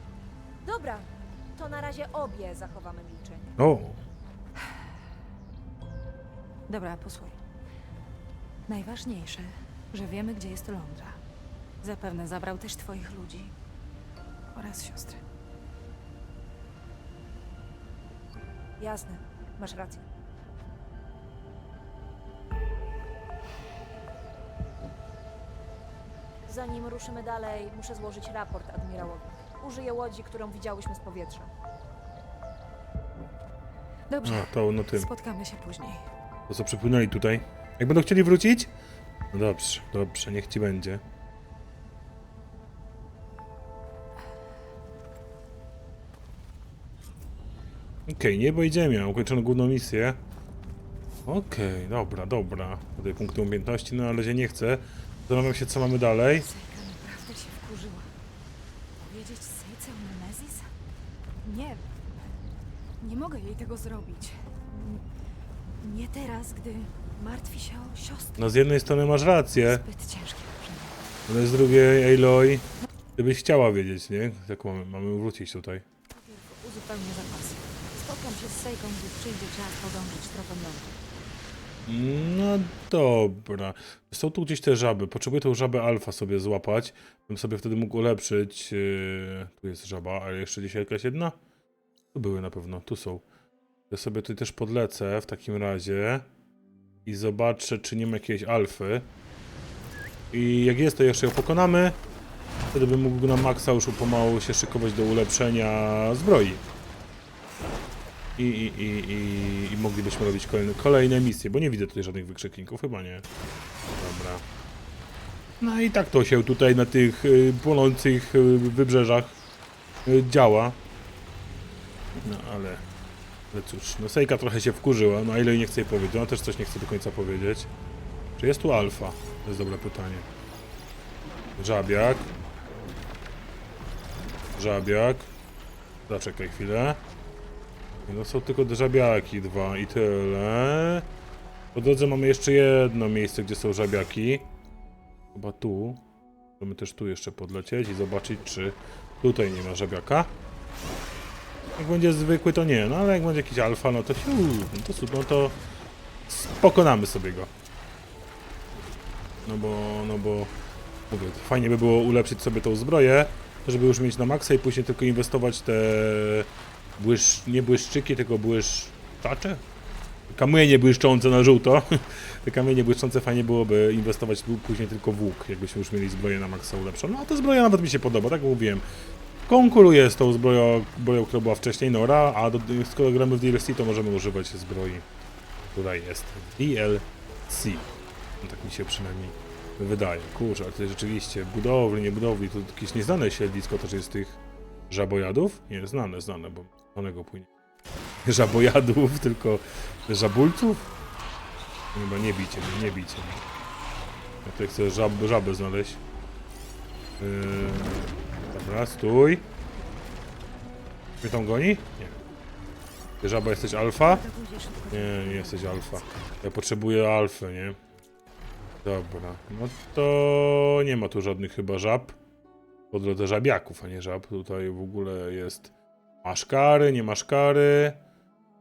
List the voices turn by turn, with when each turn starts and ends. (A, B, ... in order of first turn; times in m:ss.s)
0:00.6-0:03.6 A
0:03.6-0:04.0 B
0:06.7-0:07.4 C
0:08.7-0:11.2 C
0:11.8-0:13.5 C
0:14.5-0:15.2 C
0:18.8-0:20.0 A
0:26.4-0:31.5 A
0:34.1-0:36.1 C
0:34.2-0:35.1 B
0:36.5-0:38.7 B
0:39.3-0:41.0 B
0:48.0-0:50.2 B
0:51.3-0:56.5 B
0:56.4-0:58.1 C
0:59.0-1:00.7 C
1:01.4-1:02.0 C
1:03.0-1:05.0 C
1:05.8-1:08.5 C
1:08.4-1:09.8 B
1:09.6-1:11.0 C
1:11.3-1:15.8 B
1:16.1-1:21.0 C
1:21.9-1:31.4 B
1:32.1-1:33.2 B
1:33.9-1:36.3 B
1:37.0-1:39.1 B
1:40.3-1:42.0 B
1:42.7-1:46.6 B
1:48.4-1:53.2 B
1:54.0-1:54.4 B
1:55.6-1:59.3 B
2:00.0-2:00.8 B
2:02.2-2:02.8 B
2:03.5-2:07.7 B
2:08.4-2:10.2 B
2:11.6-2:12.3 B
2:14.5-2:15.3 B
2:16.1-2:17.0 B
2:18.0-2:21.0 B
2:21.7-2:24.5 B
2:25.3-2:26.0 B
2:26.6-2:30.3 B
2:31.8-2:35.6 B
2:36.3-2:37.5 B
2:39.4-2:40.5 B
2:41.1-2:49.6 B
2:50.3-2:58.8 B
2:59.5-3:05.0 B
3:05.7-3:17.5 B
3:18.2-3:20.9 B
3:21.9-3:23.4 B
3:24.4-3:26.0 B
3:27.2-3:29.4 B
3:31.2-3:32.2 B
3:33.2-3:34.2 B
3:34.0-3:36.0 C
3:34.9-3:37.8 B
3:38.8-3:42.2 B
3:42.9-3:45.7 B
3:46.2-3:48.0 B